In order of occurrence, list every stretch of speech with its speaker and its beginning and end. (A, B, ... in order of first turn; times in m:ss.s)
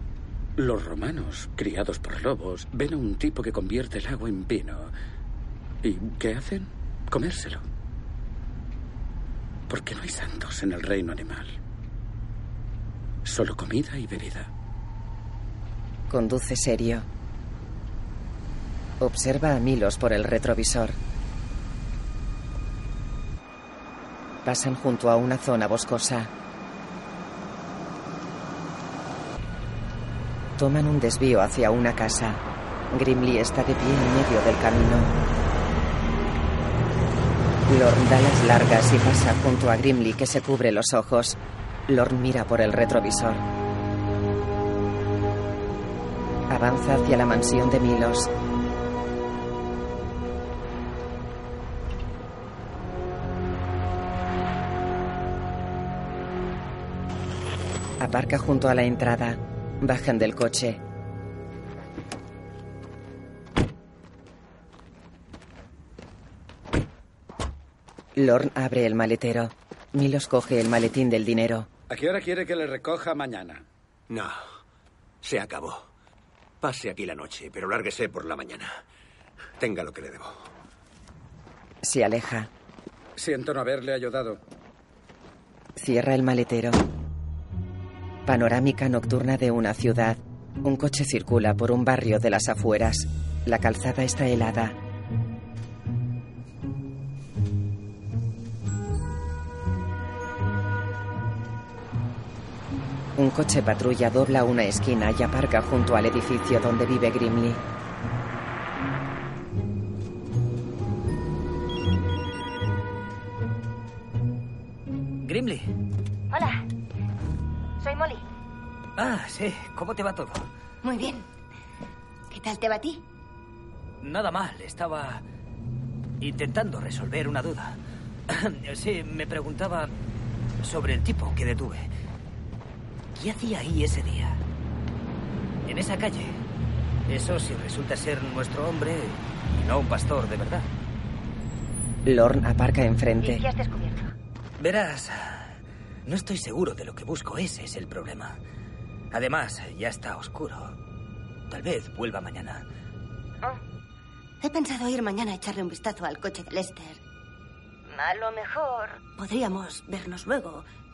0:00.6-0:04.9 A
0:05.8-0:07.6 A
0:09.7-0:11.6 A
0:13.2-0:14.5 A
0:16.1-0:17.0 B
0:19.0-0:21.0 B
0:24.4-0:26.3 B
0:30.6-0:32.4 B
0:32.9-0:35.1 B
0:37.7-0:43.4 B
0:46.5-0:48.3 B
0:58.0-1:00.8 B
1:08.2-1:11.7 B
1:11.9-1:13.6 A
1:14.1-1:14.4 C
1:15.2-1:15.9 C
1:16.6-1:18.8 C
1:19.6-1:20.5 C
1:21.8-1:22.5 B
1:23.2-1:24.4 A
1:25.8-1:26.8 B
1:28.2-1:34.8 B
1:43.2-1:47.6 B
1:55.2-1:55.7 D
1:56.3-1:56.7 E
1:57.8-1:58.2 E
1:59.0-2:00.5 D
2:00.8-2:01.3 E
2:02.3-2:03.0 E
2:04.0-2:05.2 D
2:06.2-2:09.9 D
2:10.6-2:11.9 D
2:13.1-2:14.4 D
2:15.6-2:16.4 D
2:17.1-2:20.7 D
2:22.0-2:23.4 B
2:23.2-2:24.1 E
2:24.6-2:28.4 D
2:29.1-2:30.8 D
2:31.5-2:32.7 D
2:34.4-2:37.0 E
2:37.9-2:40.6 E